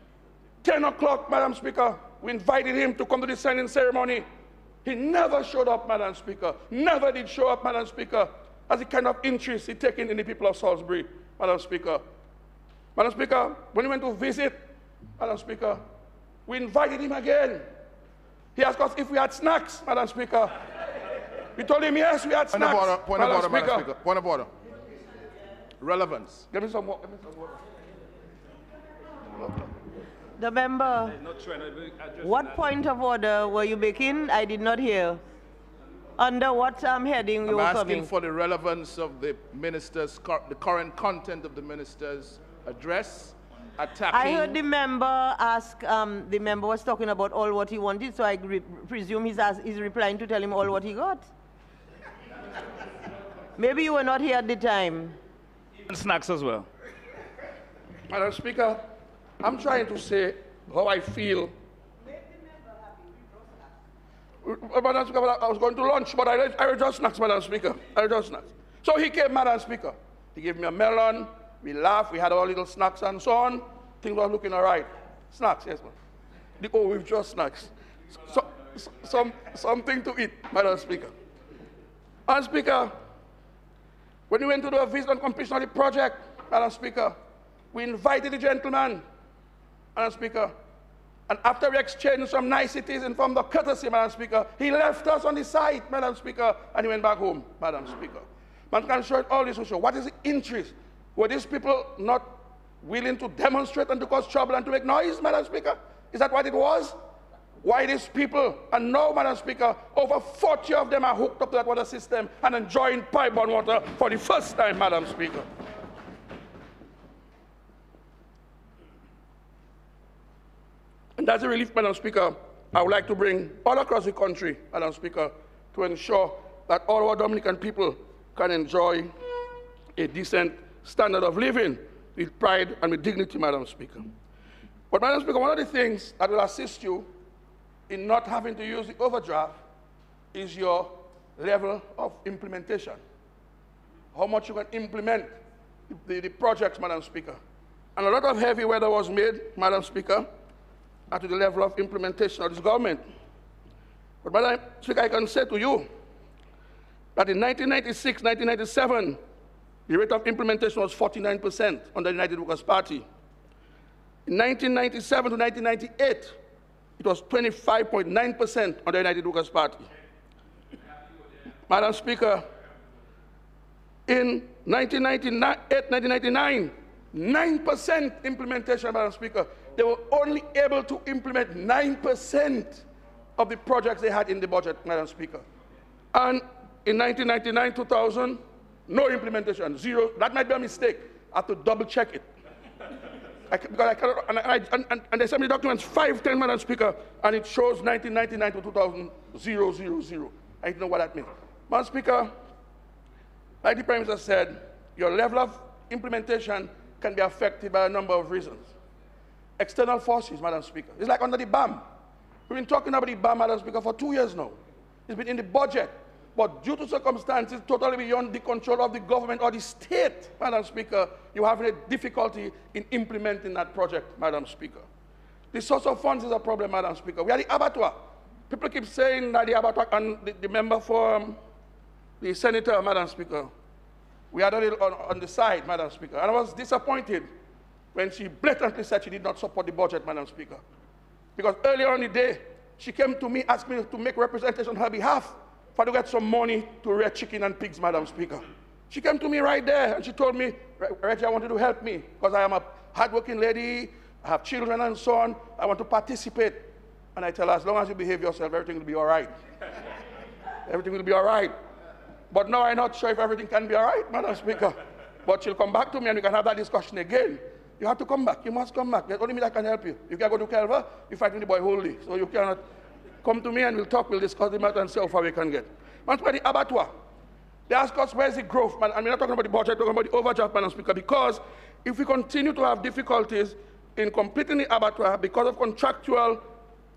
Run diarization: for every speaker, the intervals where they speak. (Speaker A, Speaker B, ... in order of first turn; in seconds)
Speaker A: 0.6-4.2, 4.8-12.0, 13.0-14.6, 15.2-15.8, 16.5-17.7, 18.6-20.6, 21.6-23.9, 26.5-27.6, 58.1-58.8, 59.4-61.5, 64.4-76.0, 76.6-81.1, 82.3-82.9, 84.3-87.2, 87.7-89.0, 90.0-90.5, 91.3-107.0, 107.6-115.5, 121.2-129.1, 130.0-134.1, 134.9-137.1, 137.9-139.6, 140.3-143.0, 144.1-145.3, 145.9-147.4, 148.0-150.3, 151.1-153.0, 154.2-155.9, 157.2-159.2, 159.9-163.1, 164.3-166.4, 167.0-169.9, 171.7-172.4, 174.1-182.8, 183.4-185.4, 186.1-192.2, 193.5-202.3, 203.6-208.7, 209.6-211.8, 212.5-224.9, 225.5-231.4, 232.2-233.5, 234.3-237.3, 237.9-240.6, 241.4-259.3, 260.7-261.6, 262.3-272.6, 273.2-276.9, 277.7-286.5
Speaker B: 22.5-24.5, 25.8-26.5, 37.5-44.6
Speaker C: 30.4-31.2, 32.2-35.2, 36.2-38.1, 44.1-51.2, 53.6-55.2, 62.2-63.3
Speaker D: 31.3-32.4, 55.9-56.7